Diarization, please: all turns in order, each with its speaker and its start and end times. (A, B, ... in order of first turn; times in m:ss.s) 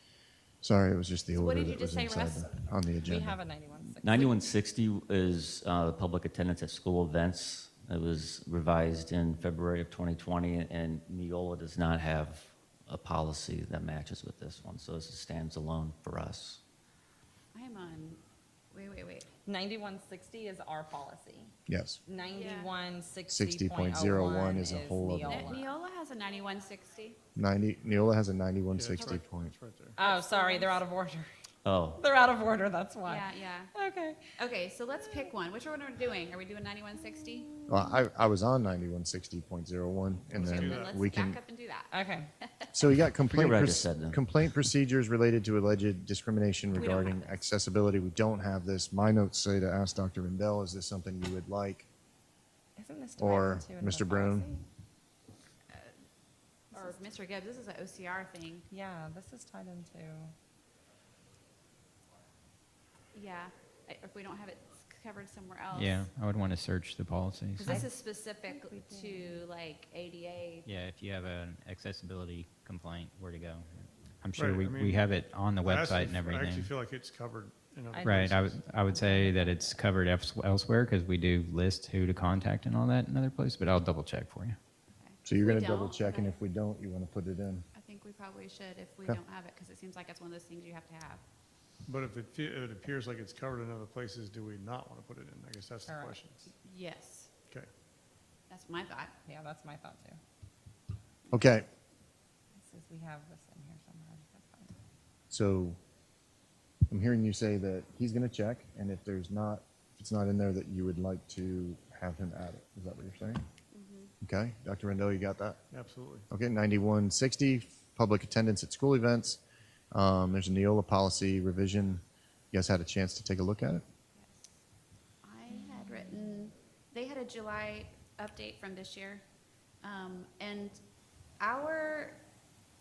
0:00.6-0:03.4 A
0:01.3-0:02.6 B
0:03.0-0:04.4 C
0:04.0-0:16.6 D
0:17.5-0:19.3 B
0:19.5-0:21.5 C
0:21.7-0:22.0 A
0:22.1-0:25.8 C
0:22.2-0:22.8 B
0:23.3-0:25.5 A
0:25.2-0:27.2 B
0:27.4-0:29.5 A
0:28.7-0:30.0 E
0:30.0-0:31.3 C
0:30.0-0:30.8 B
0:31.6-0:32.0 D
0:32.0-0:34.3 C
0:33.1-0:33.7 B
0:34.4-0:37.5 B
0:35.0-0:35.3 C
0:37.0-0:37.9 C
0:37.7-0:41.4 A
0:40.4-0:42.7 B
0:40.4-0:40.9 E
0:41.9-0:42.3 C
0:42.7-0:51.9 A
0:43.3-0:44.5 D
0:46.7-0:47.4 B
0:52.8-0:54.6 C
0:53.2-0:54.5 A
0:56.7-0:58.7 B
0:56.8-0:57.0 C
0:58.7-1:00.3 C
1:03.1-1:06.1 B
1:05.7-1:07.8 F
1:07.6-1:10.7 B
1:08.5-1:09.4 C
1:10.6-1:16.8 F
1:14.4-1:18.6 E
1:17.9-1:18.4 C
1:18.0-1:24.6 F
1:18.9-1:19.6 B
1:18.9-1:19.4 C
1:24.9-1:26.4 B
1:25.2-1:27.7 A
1:27.7-1:31.2 B
1:31.9-1:36.5 E
1:35.9-1:36.2 C
1:36.5-1:37.3 B
1:38.5-1:39.1 B
1:39.2-1:40.2 C
1:41.3-1:41.7 A
1:42.6-1:44.8 C
1:45.3-1:45.8 A
1:46.9-1:53.4 A
1:53.7-1:54.1 B
1:54.2-1:55.6 A
1:55.7-1:56.3 E
1:56.3-1:59.4 A
1:59.9-2:03.8 A
2:04.2-2:04.5 B
2:05.2-2:09.2 B
2:09.8-2:10.8 B
2:11.4-2:12.2 B